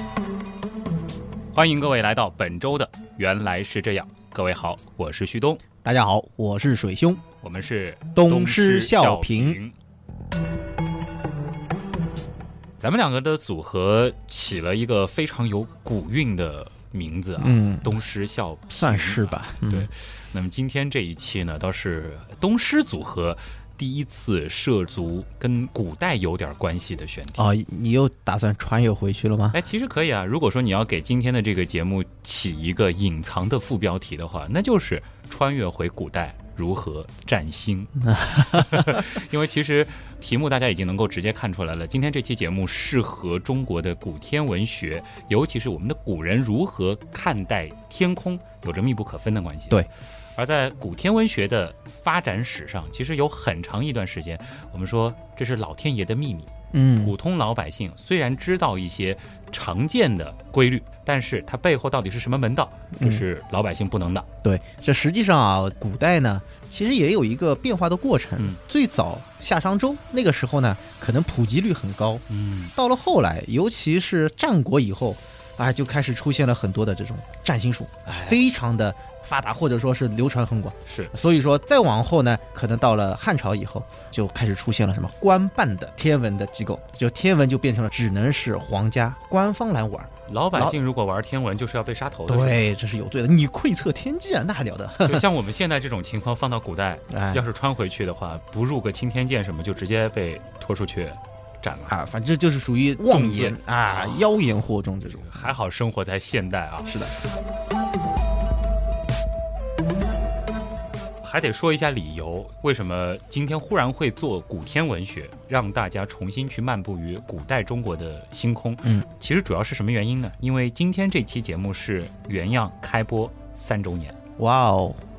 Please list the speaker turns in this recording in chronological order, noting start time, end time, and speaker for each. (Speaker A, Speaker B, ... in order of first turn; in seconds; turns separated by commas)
Speaker A: 1.5-5.6, Speaker B: 5.8-7.2, Speaker A: 7.4-9.7, Speaker B: 8.1-9.6, Speaker A: 12.8-27.5, Speaker B: 17.4-17.9, Speaker B: 18.7-19.9, Speaker B: 27.4-29.6, Speaker A: 29.5-64.3, Speaker B: 38.0-39.0, Speaker B: 56.7-57.1, Speaker B: 63.0-63.2, Speaker B: 64.4-90.8, Speaker A: 72.3-72.7, Speaker A: 78.0-78.4, Speaker A: 80.8-81.1, Speaker A: 90.3-92.7, Speaker B: 92.3-95.2, Speaker A: 95.0-102.0, Speaker B: 97.1-97.4, Speaker B: 101.9-105.5, Speaker A: 103.1-104.2, Speaker A: 105.1-107.2, Speaker B: 106.9-107.1, Speaker A: 111.2-124.2, Speaker B: 124.4-125.0